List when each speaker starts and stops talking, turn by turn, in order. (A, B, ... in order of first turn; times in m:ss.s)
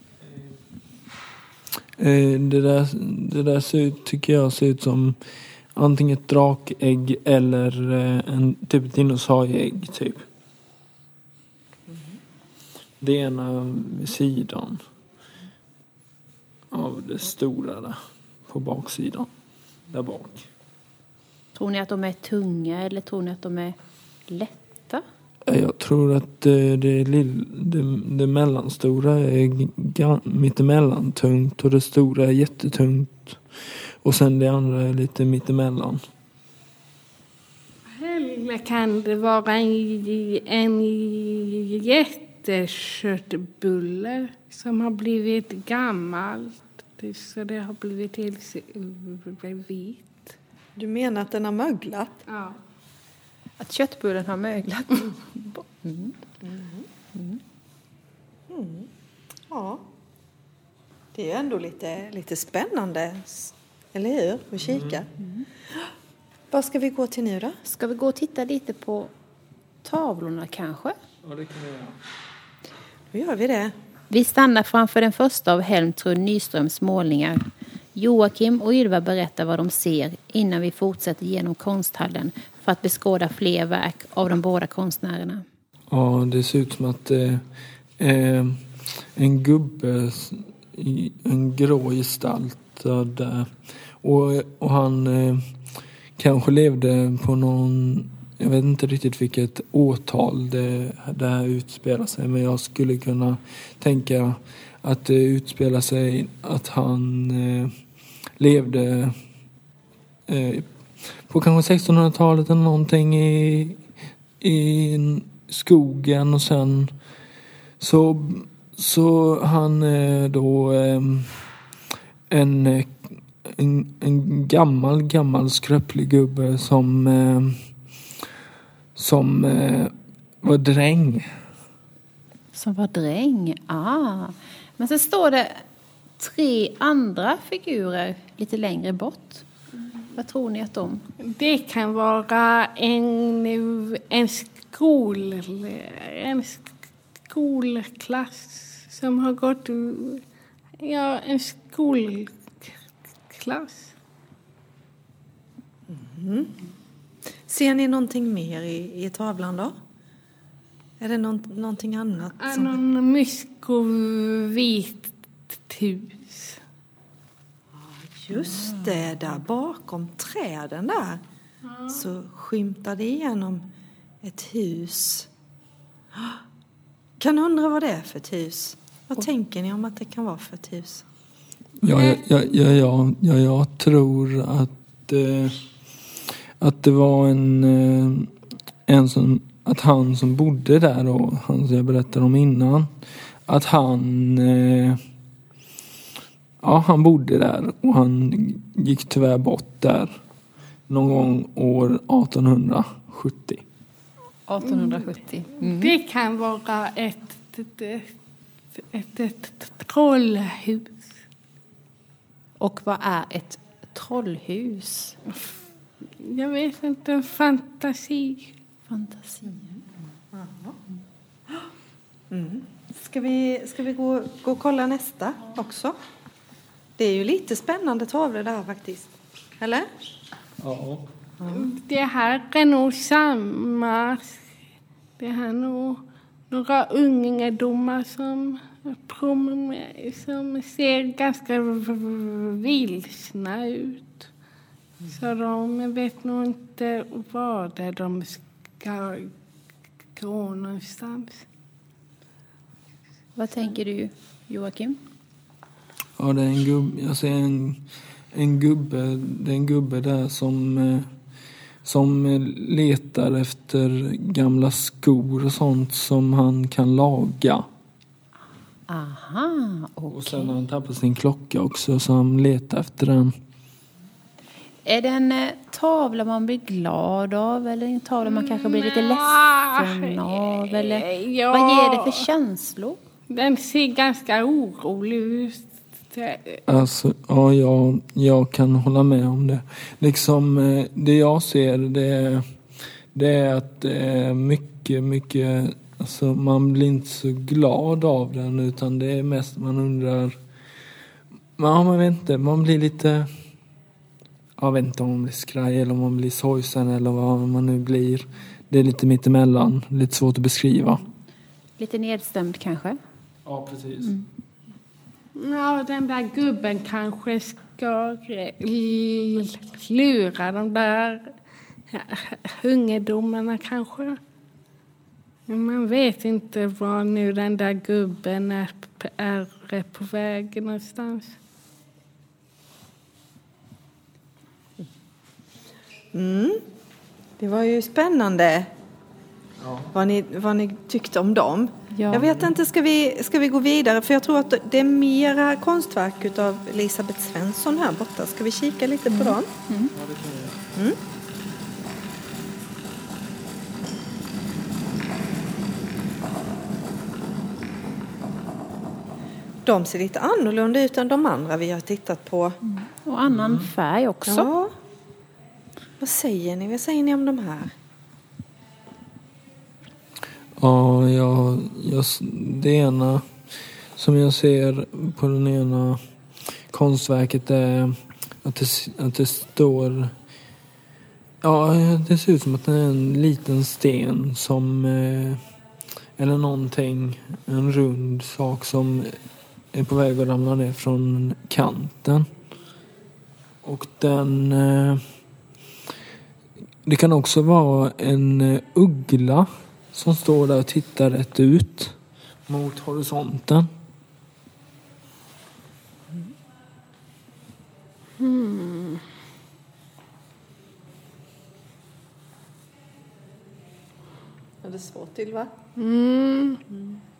0:02.0-0:05.2 A
0:05.7-0:10.2 A
0:13.0-0:14.8 A
0:16.7-0:19.3 A
0:19.9-0:20.4 A
0:21.5-0:23.8 B
0:24.3-0:25.0 B
0:25.4-0:36.0 A
0:37.9-0:50.3 C
0:50.8-0:52.2 D
0:52.3-0:52.6 C
0:53.6-0:56.2 B
0:56.4-0:56.8 D
0:57.1-0:57.4 B
0:58.5-0:58.9 D
0:59.5-0:59.8 D
1:01.1-1:05.1 D
1:04.6-1:05.0 A
1:05.2-1:05.4 B
1:06.5-1:07.6 D
1:07.6-1:09.1 B
1:09.8-1:11.0 B
1:11.2-1:12.0 A
1:13.1-1:13.7 D
1:14.1-1:25.4 B
1:25.9-1:27.4 A
1:28.0-1:35.5 A
1:36.2-1:47.7 A
1:48.4-1:49.2 A
1:50.3-1:53.8 A
1:54.4-1:56.9 A
1:57.8-2:01.4 A
2:02.3-2:07.6 A
2:09.0-2:11.4 A
2:12.5-2:15.6 B
2:16.2-2:19.4 B
2:20.1-2:21.0 B
2:21.2-2:26.7 C
2:27.3-2:30.2 C
2:30.8-2:32.7 C
2:33.3-2:33.9 C
2:35.9-2:36.6 D
2:37.5-2:39.8 D
2:41.0-2:42.8 D
2:42.4-2:46.6 C
2:48.1-2:51.2 D
2:51.6-2:52.0 C
2:51.9-2:53.7 D
2:54.2-2:55.3 D
2:57.2-3:01.0 D
3:01.8-3:05.6 A
3:06.6-3:08.3 A
3:08.9-3:12.9 A
3:13.5-3:15.0 A
3:16.6-3:20.1 A
3:20.9-3:23.6 A
3:24.5-3:25.9 B
3:24.7-3:25.0 C
3:25.6-3:28.1 C
3:28.8-3:31.1 C
3:32.6-3:35.2 B
3:36.2-3:38.5 C
3:38.9-3:39.5 B
3:39.5-3:39.8 D
3:40.3-3:40.8 D
3:42.3-3:45.9 D
3:47.0-3:49.9 D
3:50.6-3:51.1 A
3:51.4-3:51.7 D
3:51.5-3:54.4 C
3:55.2-4:04.3 C
4:05.1-4:09.3 C
4:10.1-4:11.4 C
4:13.4-4:15.0 B
4:16.2-4:17.8 A
4:18.3-4:21.1 A
4:21.8-4:27.7 A
4:28.9-4:30.5 B
4:30.1-4:33.3 A
4:34.8-4:43.0 B
4:38.2-4:42.3 C
4:43.3-4:46.6 C
4:46.7-4:52.5 A
4:53.1-5:00.4 A
5:01.6-5:03.3 A
5:04.6-5:11.0 A
5:11.8-5:13.0 B
5:13.4-5:14.1 A
5:15.3-5:21.3 C
5:21.9-5:24.2 C
5:25.5-5:31.4 C
5:36.1-5:36.6 D
5:37.4-5:38.7 D
5:39.6-5:39.9 A
5:39.9-5:49.5 D
5:41.9-5:42.2 B
5:42.2-5:42.5 A
5:49.1-5:49.9 B
5:49.9-5:50.6 A
5:59.6-6:02.6 D
6:02.6-6:04.5 B
6:03.3-6:03.7 A
6:04.2-6:04.7 D
6:06.0-6:07.7 D
6:10.6-6:13.3 A
6:13.9-6:16.0 A
6:16.5-6:20.1 A
6:21.4-6:25.4 A
6:26.2-6:29.2 A
6:29.7-6:32.3 A
6:33.6-6:35.0 A
6:36.8-6:42.0 A
6:42.5-6:43.7 A
6:48.2-6:49.0 C
6:54.6-6:55.5 D
6:55.8-6:56.6 C